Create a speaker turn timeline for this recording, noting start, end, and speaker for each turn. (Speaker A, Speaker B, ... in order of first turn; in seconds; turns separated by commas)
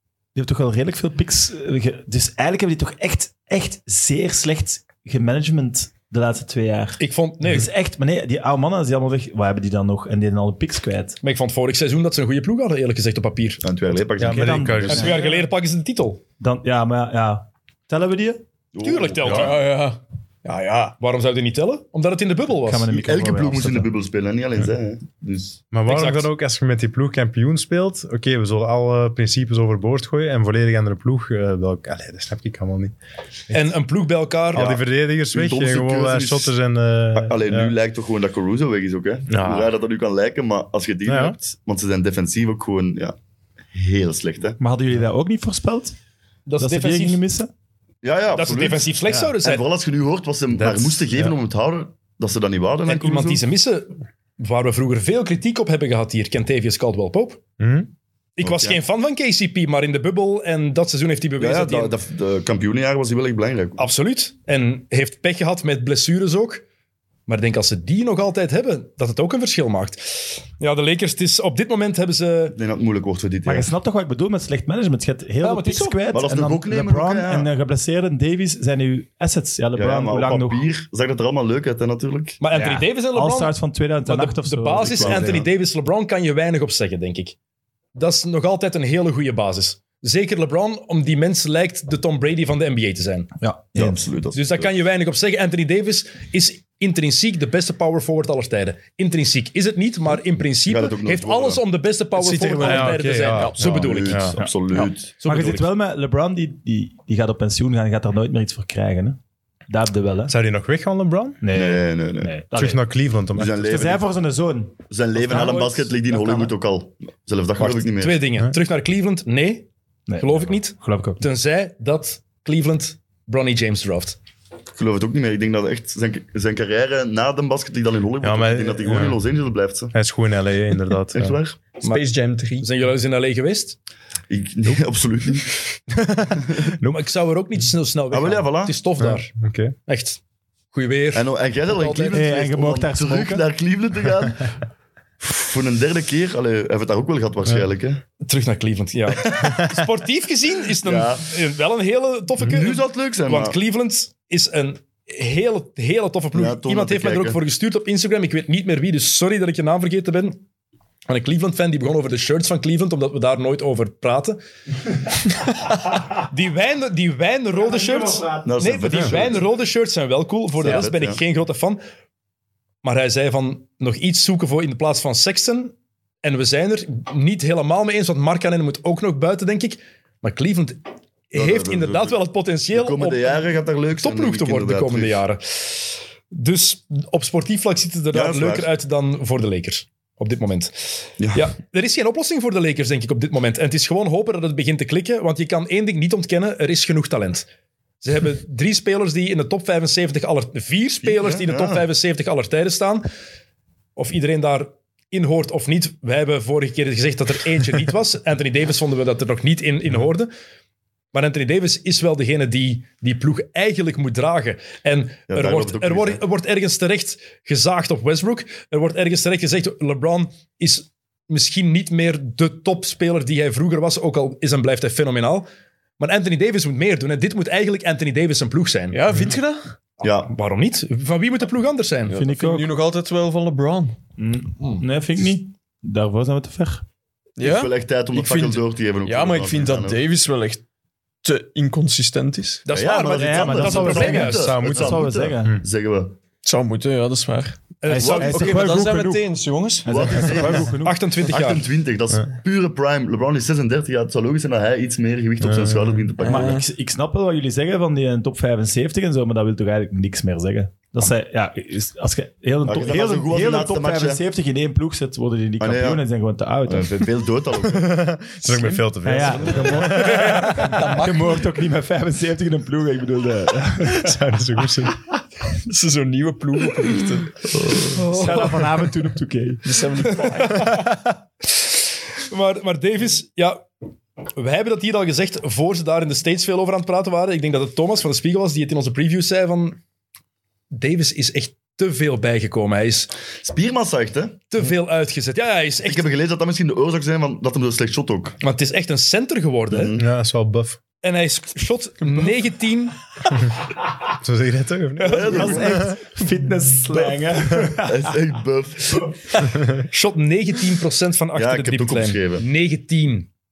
Speaker A: 0.3-11.2, Speaker B: 7.0-7.7, Speaker B: 11.2-13.6, Speaker C: 13.6-15.2, Speaker D: 14.2-15.2, Speaker A: 14.2-15.2, Speaker B: 14.9-16.2, Speaker A: 16.4-18.4, Speaker C: 18.7-19.5, Speaker B: 18.8-19.6, Speaker E: 19.3-21.0, Speaker B: 21.0-22.9, Speaker A: 22.6-23.9, Speaker C: 22.9-25.6, Speaker D: 25.7-32.9, Speaker B: 25.9-26.3, Speaker B: 33.5-34.7, Speaker D: 34.5-37.7, Speaker C: 34.5-36.5, Speaker C: 37.1-43.2, Speaker D: 39.3-39.7, Speaker D: 41.1-41.4, Speaker C: 43.7-44.6, Speaker A: 44.6-46.0, Speaker B: 46.5-47.2, Speaker A: 46.6-47.5, Speaker C: 48.0-53.4, Speaker B: 48.3-49.7, Speaker D: 50.5-51.4, Speaker B: 52.9-57.4, Speaker D: 57.6-57.9, Speaker B: 58.4-61.9, Speaker C: 58.4-58.8, Speaker C: 61.4-63.9, Speaker B: 63.8-66.7, Speaker B: 67.3-72.6, Speaker C: 72.5-73.7, Speaker A: 73.5-80.7, Speaker B: 75.4-76.1, Speaker C: 76.1-77.5, Speaker C: 79.8-82.4, Speaker B: 82.4-87.4, Speaker A: 82.5-85.5, Speaker C: 84.8-85.5, Speaker B: 88.0-93.3, Speaker A: 93.4-94.0, Speaker C: 93.8-94.7, Speaker B: 94.3-105.7, Speaker C: 100.7-101.6, Speaker D: 102.2-104.5, Speaker E: 103.2-103.6, Speaker C: 103.6-105.1, Speaker A: 105.2-110.3, Speaker D: 110.3-111.4, Speaker A: 111.4-112.8, Speaker C: 111.5-112.3, Speaker D: 112.5-113.7, Speaker C: 113.3-114.1, Speaker A: 113.5-116.5, Speaker C: 114.9-118.2, Speaker B: 117.6-119.7, Speaker A: 120.1-121.2, Speaker B: 120.2-124.2, Speaker C: 124.8-129.9, Speaker D: 128.2-129.2, Speaker D: 129.9-131.4, Speaker C: 131.1-131.6, Speaker E: 131.8-132.7, Speaker B: 132.6-133.8, Speaker C: 134.3-135.6, Speaker D: 136.0-136.8, Speaker C: 136.5-136.7, Speaker B: 136.8-139.3, Speaker C: 138.1-138.8, Speaker D: 139.0-139.8, Speaker B: 139.9-140.2, Speaker B: 140.7-142.3, Speaker C: 141.1-144.6, Speaker A: 142.1-143.4, Speaker C: 145.2-148.0, Speaker B: 148.2-160.4, Speaker D: 149.4-149.7, Speaker C: 150.8-151.3, Speaker C: 152.4-153.6, Speaker C: 156.3-157.4, Speaker B: 161.1-164.4, Speaker B: 166.2-171.8, Speaker C: 168.4-169.4, Speaker C: 170.6-171.2, Speaker B: 172.8-183.4, Speaker C: 181.3-182.2, Speaker C: 182.7-185.2, Speaker B: 184.0-190.8, Speaker C: 188.1-188.7, Speaker C: 191.2-191.5, Speaker B: 191.3-197.5, Speaker B: 198.0-203.1, Speaker C: 201.0-201.9, Speaker B: 204.0-210.3, Speaker B: 211.1-225.5, Speaker C: 215.3-216.2, Speaker B: 226.0-229.0, Speaker E: 228.9-229.7, Speaker C: 230.0-230.3, Speaker B: 230.0-232.2, Speaker E: 232.1-234.0, Speaker A: 232.1-232.7, Speaker A: 234.2-236.8, Speaker E: 237.4-237.7, Speaker C: 237.4-240.0, Speaker B: 238.2-238.5, Speaker E: 239.0-240.6, Speaker E: 241.2-242.6, Speaker B: 242.7-244.5, Speaker C: 242.7-246.2, Speaker A: 243.0-245.6, Speaker D: 244.2-245.6, Speaker E: 246.4-247.7, Speaker B: 247.8-248.9, Speaker A: 247.9-249.2, Speaker C: 248.0-248.5, Speaker E: 248.3-249.9, Speaker A: 249.8-251.0, Speaker C: 249.9-256.6, Speaker B: 250.8-251.7, Speaker D: 255.4-256.1, Speaker E: 256.2-256.6, Speaker A: 256.2-267.1, Speaker C: 262.6-264.2, Speaker C: 265.6-266.1, Speaker C: 266.6-268.1, Speaker D: 267.6-270.7, Speaker A: 269.0-274.2, Speaker E: 269.2-271.5, Speaker D: 273.8-275.0, Speaker E: 275.7-277.4, Speaker C: 277.5-277.9, Speaker B: 277.9-278.6, Speaker A: 278.1-279.7, Speaker E: 279.6-280.7, Speaker B: 280.2-280.9, Speaker B: 282.3-283.7, Speaker B: 284.4-289.8, Speaker B: 290.7-293.1, Speaker C: 293.4-294.4, Speaker B: 294.5-296.1, Speaker C: 295.9-298.4, Speaker B: 298.4-300.0, Speaker C: 299.7-300.1, Speaker D: 300.0-300.8, Speaker B: 301.0-303.0, Speaker D: 304.1-306.0, Speaker B: 305.0-305.5, Speaker C: 305.1-305.9, Speaker A: 305.2-308.1, Speaker C: 307.8-309.4, Speaker B: 309.8-313.3, Speaker C: 311.4-312.5